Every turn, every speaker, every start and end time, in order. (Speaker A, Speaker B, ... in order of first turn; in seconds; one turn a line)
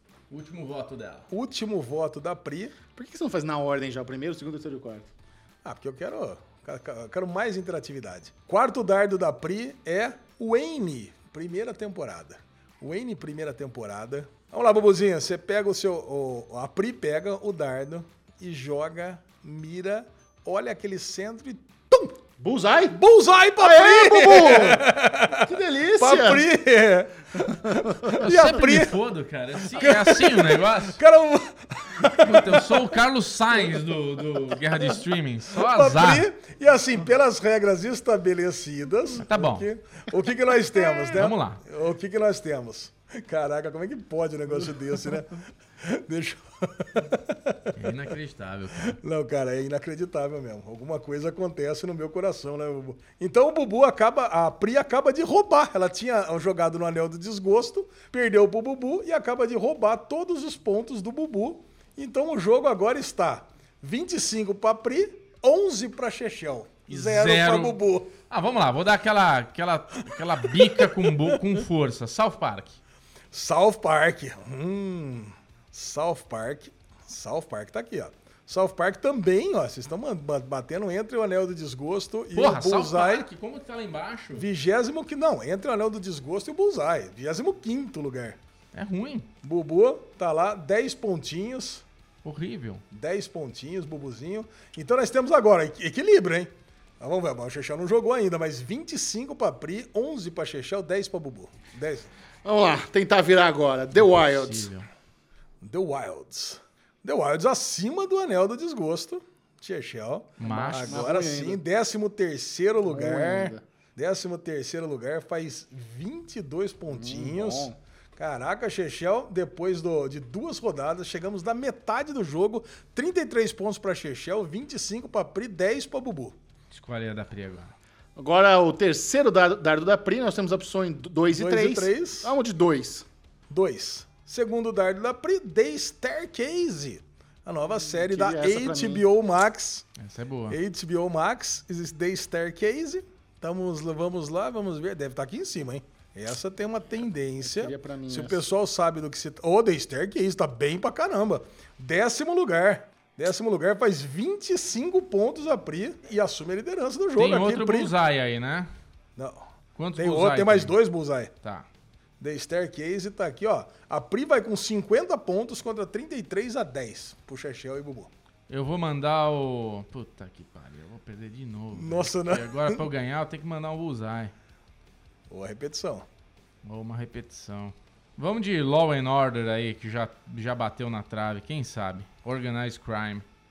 Speaker A: 0.3-1.3
Speaker B: 1.3-2.8
Speaker C: 3.0-5.1
Speaker B: 5.6-22.2
Speaker C: 22.4-23.0
Speaker B: 22.9-29.0
Speaker C: 23.6-26.5
Speaker C: 27.6-28.2
Speaker A: 28.1-31.0
Speaker B: 29.7-33.0
Speaker A: 32.0-36.3
Speaker B: 35.5-47.9
Speaker A: 39.2-39.7
Speaker A: 41.1-41.6
Speaker A: 47.7-49.0
Speaker B: 48.8-68.1
Speaker A: 66.9-67.8
Speaker A: 68.3-72.8
Speaker B: 70.2-71.4
Speaker B: 73.3-83.3
Speaker A: 82.3-84.5
Speaker B: 84.3-88.4
Speaker A: 88.7-89.3
Speaker B: 89.4-91.8
Speaker A: 92.2-92.8
Speaker B: 92.9-102.1
Speaker C: 102.5-104.7
Speaker A: 104.0-104.9
Speaker B: 105.6-126.3
Speaker A: 110.4-111.0
Speaker C: 110.4-111.6
Speaker C: 112.8-113.6
Speaker C: 116.9-117.8
Speaker A: 126.7-127.7
Speaker C: 128.2-133.1
Speaker B: 131.3-132.3
Speaker B: 133.5-139.8
Speaker C: 137.7-139.1
Speaker A: 140.0-140.6
Speaker B: 140.5-157.9
Speaker C: 147.4-148.4
Speaker A: 157.2-158.7
Speaker B: 159.2-161.3
Speaker A: 159.8-160.8
Speaker B: 162.2-168.1
Speaker A: 168.5-174.3
Speaker B: 171.7-172.8
Speaker B: 175.3-176.1
Speaker A: 176.6-183.2